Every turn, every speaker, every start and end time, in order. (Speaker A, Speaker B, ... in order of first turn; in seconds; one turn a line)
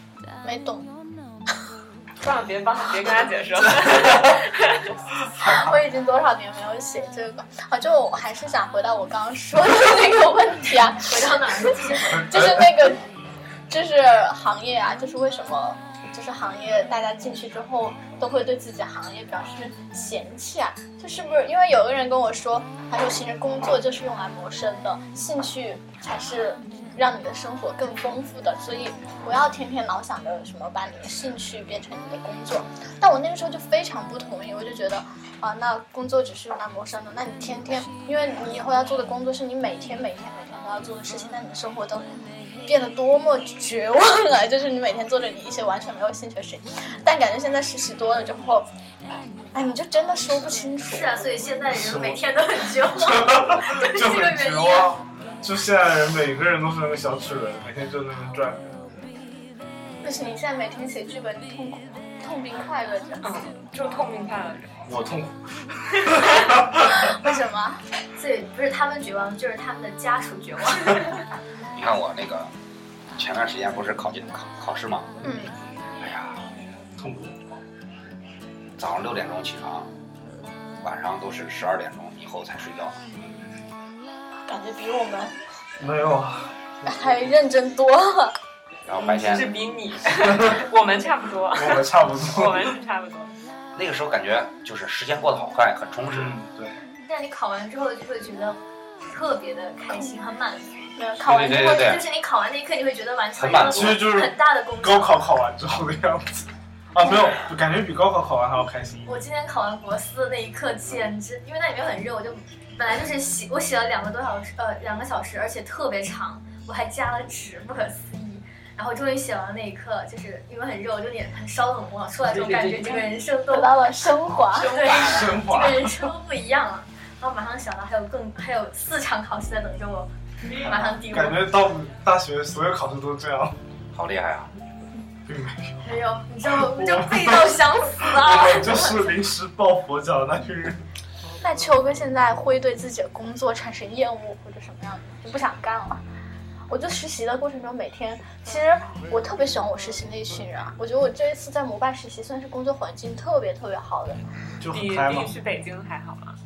Speaker A: 0.4-0.9
Speaker B: 2.2-4.9
Speaker C: 3.7-4.4
Speaker C: 5.3-5.8
Speaker A: 5.4-11.3
Speaker D: 10.9-12.3
Speaker A: 12.0-13.0
Speaker C: 12.1-12.8
Speaker A: 13.7-42.0
Speaker A: 42.6-48.7
Speaker A: 49.5-51.2
Speaker D: 50.8-55.0
Speaker C: 51.7-52.2
Speaker C: 53.0-58.8
Speaker A: 60.0-63.2
Speaker B: 63.2-64.7
Speaker C: 64.8-67.1
Speaker A: 66.9-67.8
Speaker D: 68.2-71.2
Speaker E: 71.7-72.5
Speaker E: 73.2-75.2
Speaker A: 75.2-75.5
Speaker E: 76.0-76.4
Speaker C: 77.0-77.3
Speaker E: 78.8-79.9
Speaker E: 80.8-83.0
Speaker A: 84.5-85.4
Speaker C: 85.8-86.5
Speaker A: 86.8-88.3
Speaker E: 88.8-89.5
Speaker B: 89.0-93.3
Speaker C: 90.2-90.6
Speaker C: 91.5-92.7
Speaker E: 93.8-96.3
Speaker C: 96.1-96.7
Speaker D: 96.9-100.9
Speaker A: 101.0-102.0
Speaker E: 101.2-102.1
Speaker D: 101.7-105.2
Speaker E: 103.3-104.2
Speaker C: 103.7-109.2
Speaker D: 109.0-123.8
Speaker A: 123.5-124.8
Speaker D: 124.5-131.5
Speaker C: 124.8-126.1
Speaker C: 130.6-133.6
Speaker E: 133.9-134.5
Speaker C: 135.2-135.8
Speaker D: 135.8-139.2
Speaker C: 136.4-140.8
Speaker A: 141.4-146.0
Speaker A: 146.7-154.2
Speaker C: 154.6-155.3
Speaker B: 154.7-156.3